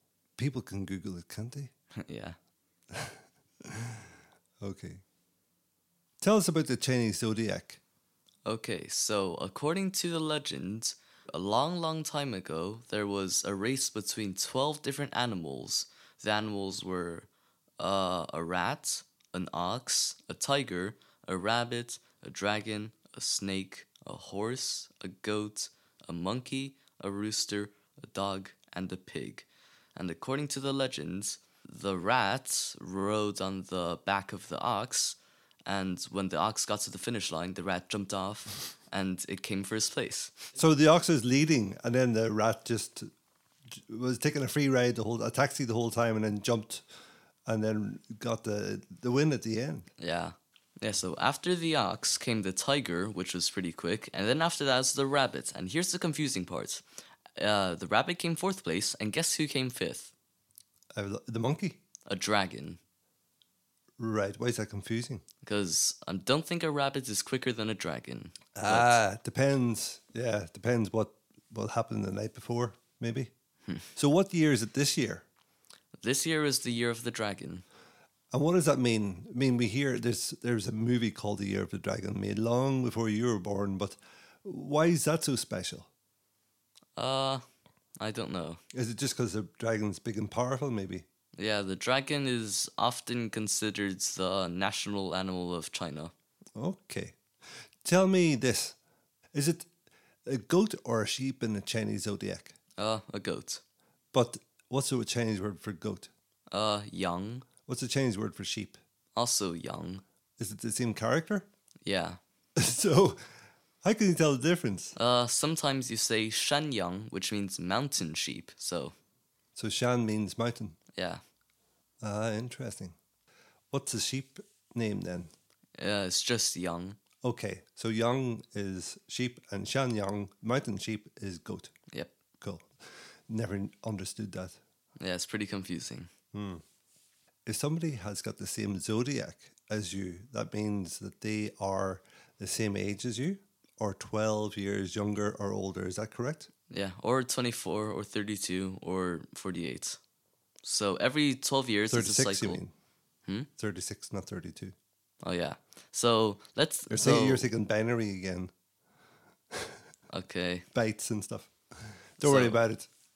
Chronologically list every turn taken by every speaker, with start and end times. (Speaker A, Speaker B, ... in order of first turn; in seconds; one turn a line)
Speaker A: 0.4-1.7
Speaker B: 2.0-2.4
Speaker A: 2.9-4.1
Speaker A: 4.6-5.0
Speaker A: 6.2-7.8
Speaker B: 8.4-17.3
Speaker B: 17.8-40.4
Speaker A: 40.6-43.1
Speaker A: 43.7-46.8
Speaker A: 47.5-49.9
Speaker B: 50.0-56.8
Speaker B: 57.4-60.1
Speaker A: 61.0-61.8
Speaker B: 62.1-62.8
Speaker A: 64.0-65.2
Speaker B: 65.4-69.0
Speaker A: 68.5-73.3
Speaker A: 74.0-75.2
Speaker B: 76.0-77.7
Speaker A: 78.3-85.9
Speaker B: 87.0-87.4
Speaker B: 88.0-88.6
Speaker A: 88.7-91.1
Speaker B: 91.4-96.1
Speaker A: 96.6-97.2
Speaker A: 97.8-98.8
Speaker A: 99.3-99.7
Speaker A: 100.3-102.5
Speaker B: 102.8-103.6
Speaker A: 104.1-106.1
Speaker B: 106.5-107.5
Speaker A: 107.7-108.8
Speaker B: 109.2-110.0
Speaker A: 110.4-111.5
Speaker B: 111.8-112.2
Speaker A: 112.6-113.2
Speaker A: 113.8-115.0
Speaker B: 115.0-118.9
Speaker A: 119.6-120.8
Speaker B: 121.0-121.2
Speaker A: 122.0-123.0
Speaker A: 123.7-125.3
Speaker B: 125.8-127.0
Speaker A: 127.2-131.7
Speaker A: 132.4-132.7
Speaker A: 133.3-134.6
Speaker B: 135.0-136.1
Speaker A: 136.3-136.6
Speaker A: 137.5-146.5
Speaker B: 146.7-150.0
Speaker B: 150.6-152.6
Speaker A: 151.9-152.7
Speaker A: 153.6-154.8
Speaker B: 155.2-157.5
Speaker A: 156.9-158.5
Speaker A: 159.5-159.8
Speaker B: 160.1-160.7
Speaker A: 160.7-161.5
Speaker A: 162.2-162.9
Speaker B: 162.2-162.6